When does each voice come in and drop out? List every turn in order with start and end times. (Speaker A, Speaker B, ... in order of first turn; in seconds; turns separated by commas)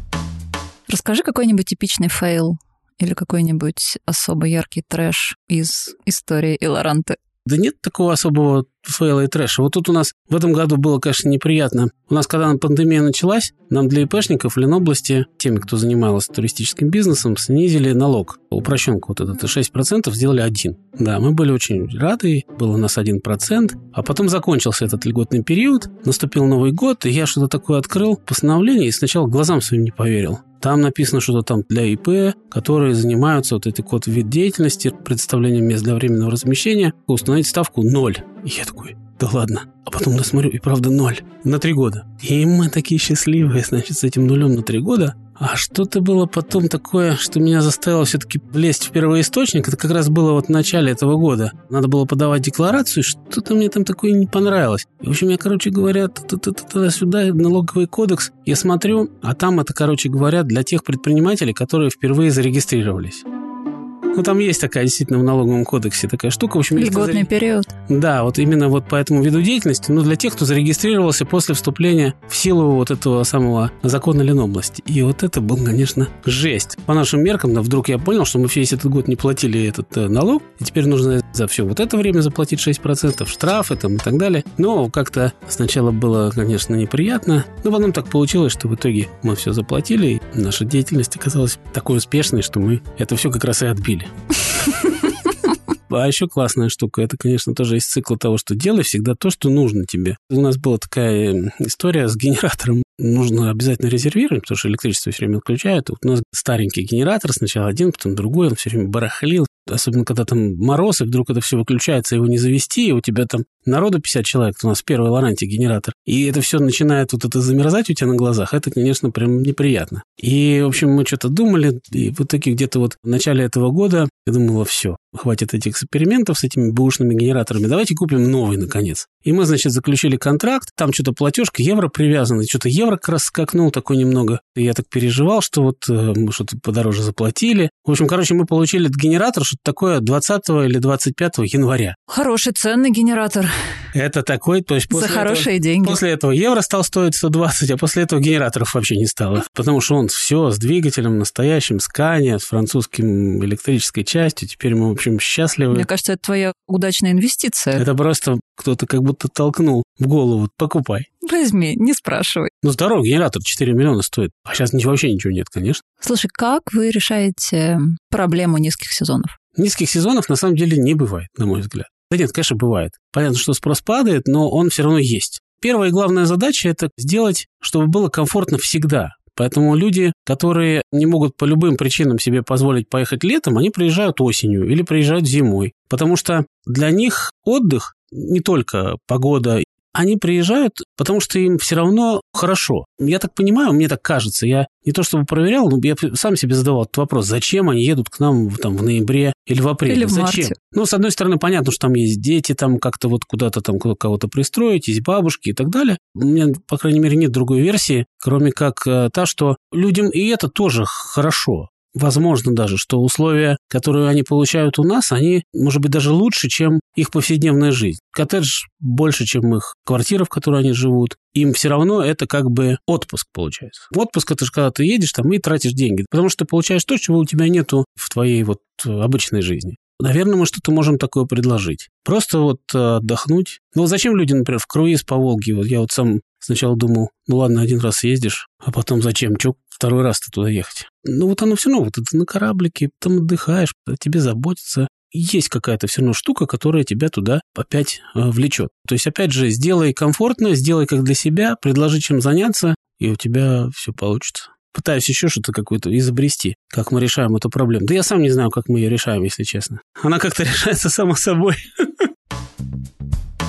Speaker A: 0.9-7.2, Speaker B: 7.4-63.2, Speaker B: 64.1-67.3, Speaker A: 66.7-67.7, Speaker B: 67.9-95.1, Speaker B: 95.9-141.9, Speaker A: 142.1-143.5, Speaker B: 143.9-155.9, Speaker A: 144.9-146.0, Speaker A: 155.7-157.8, Speaker B: 157.8-161.1, Speaker A: 161.2-162.5, Speaker B: 162.6-165.8, Speaker A: 166.0-169.3, Speaker B: 169.6-262.1, Speaker A: 199.8-200.5